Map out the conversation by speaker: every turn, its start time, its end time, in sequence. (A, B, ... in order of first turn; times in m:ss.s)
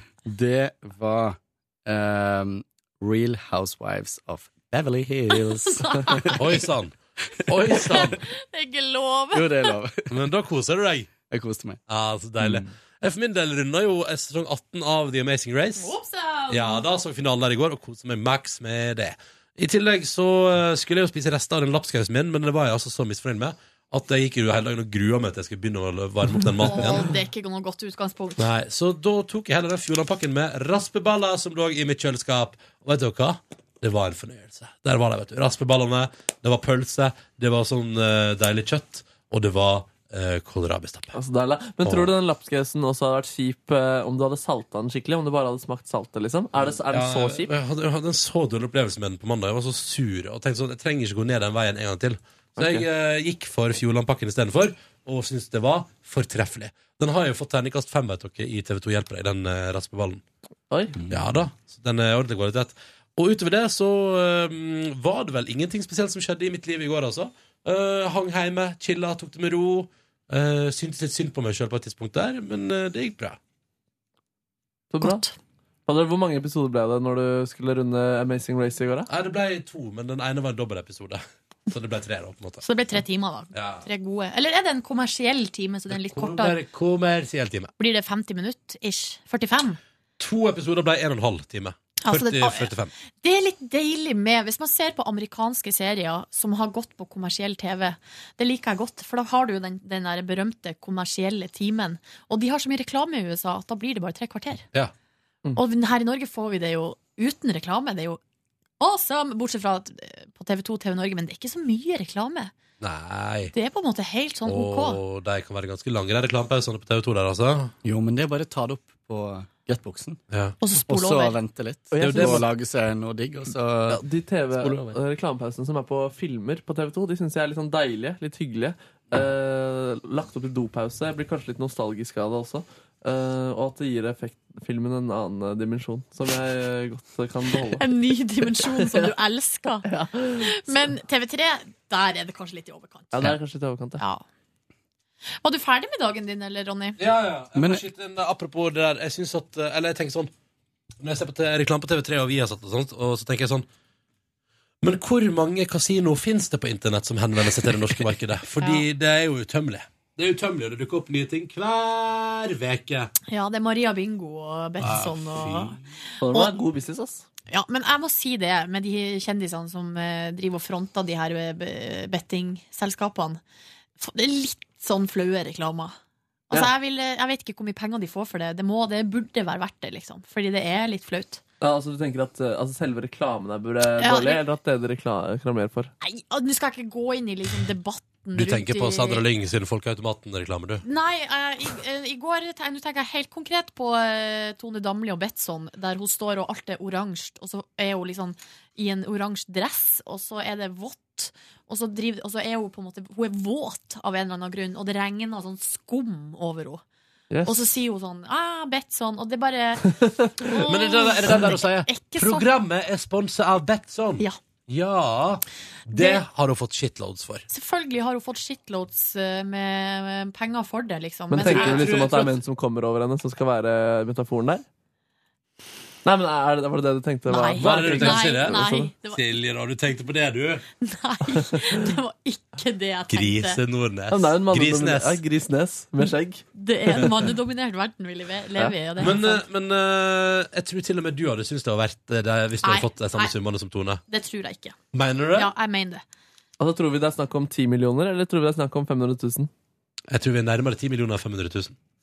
0:00.2-0:06.6 A
0:05.3-0:06.4 B
0:06.4-0:08.2 C
0:07.7-0:09.7 B
0:09.3-0:10.1 A
0:10.1-0:11.1 C
0:11.2-0:11.8 A
0:11.9-0:16.0 C
0:12.4-0:12.7 A
0:15.8-0:16.8 B
0:16.5-0:27.1 C
0:26.6-0:28.5 B
0:28.4-0:41.2 C
0:41.2-0:47.5 D
0:41.8-0:42.1 C
0:46.6-1:00.2 C
0:52.6-0:52.8 D
1:00.7-1:01.0 D
1:01.0-1:01.2 A
1:01.1-1:13.4 C
1:14.9-1:15.2 D
1:15.0-1:15.3 B
1:15.9-1:19.1 D
1:19.1-1:22.6 C
1:22.6-1:26.6 B
1:23.5-1:23.9 C
1:25.9-1:27.7 C
1:27.8-1:29.8 B
1:30.2-1:32.9 C
1:32.0-1:44.6 B
1:45.6-1:48.2 B
1:48.8-1:52.5 B
1:52.8-1:53.5 C
1:53.5-1:55.0 B
1:54.4-1:57.7 C
1:57.8-2:00.2 A
2:00.3-2:00.6 C
2:00.6-2:01.4 B
2:00.8-2:04.0 A
2:01.9-2:02.5 D
2:02.0-2:02.4 C
2:03.9-2:17.9 D
2:04.6-2:05.0 A
2:17.8-2:19.9 B
2:18.6-2:19.1 D
2:19.8-2:20.9 D
2:20.4-2:23.2 B
2:23.1-2:24.0 D
2:24.0-2:24.2 B
2:25.4-2:27.0 B
2:27.0-2:30.3 C
2:27.6-2:27.8 A
2:31.0-2:33.7 C
2:34.8-2:43.1 C
2:43.3-2:45.8 B
2:44.8-2:45.8 C
2:46.2-2:47.2 D
2:47.5-2:53.4 B
2:54.0-2:56.0 B
2:56.5-3:01.4 B
3:01.6-3:05.9 D
3:04.0-3:04.4 B
3:06.0-3:09.2 B
3:08.4-3:10.8 C
3:10.8-3:26.8 B
3:27.3-3:27.6 D
3:27.4-3:32.5 B
3:30.7-3:37.4 C
3:35.9-3:36.2 B
3:37.5-3:42.3 B
3:41.3-3:44.6 D
3:41.4-3:42.3 C
3:46.0-3:48.9 D
3:47.3-3:49.2 B
3:47.6-3:50.6 C
3:50.8-3:53.6 B
3:53.1-3:55.2 C
3:54.1-3:57.1 D
3:56.6-3:59.4 B
3:59.0-4:04.0 C
4:02.6-4:03.3 B
4:04.1-4:04.8 B
4:04.9-4:05.5 C
4:05.4-4:06.0 B
4:06.6-4:09.5 D
4:10.1-4:11.8 C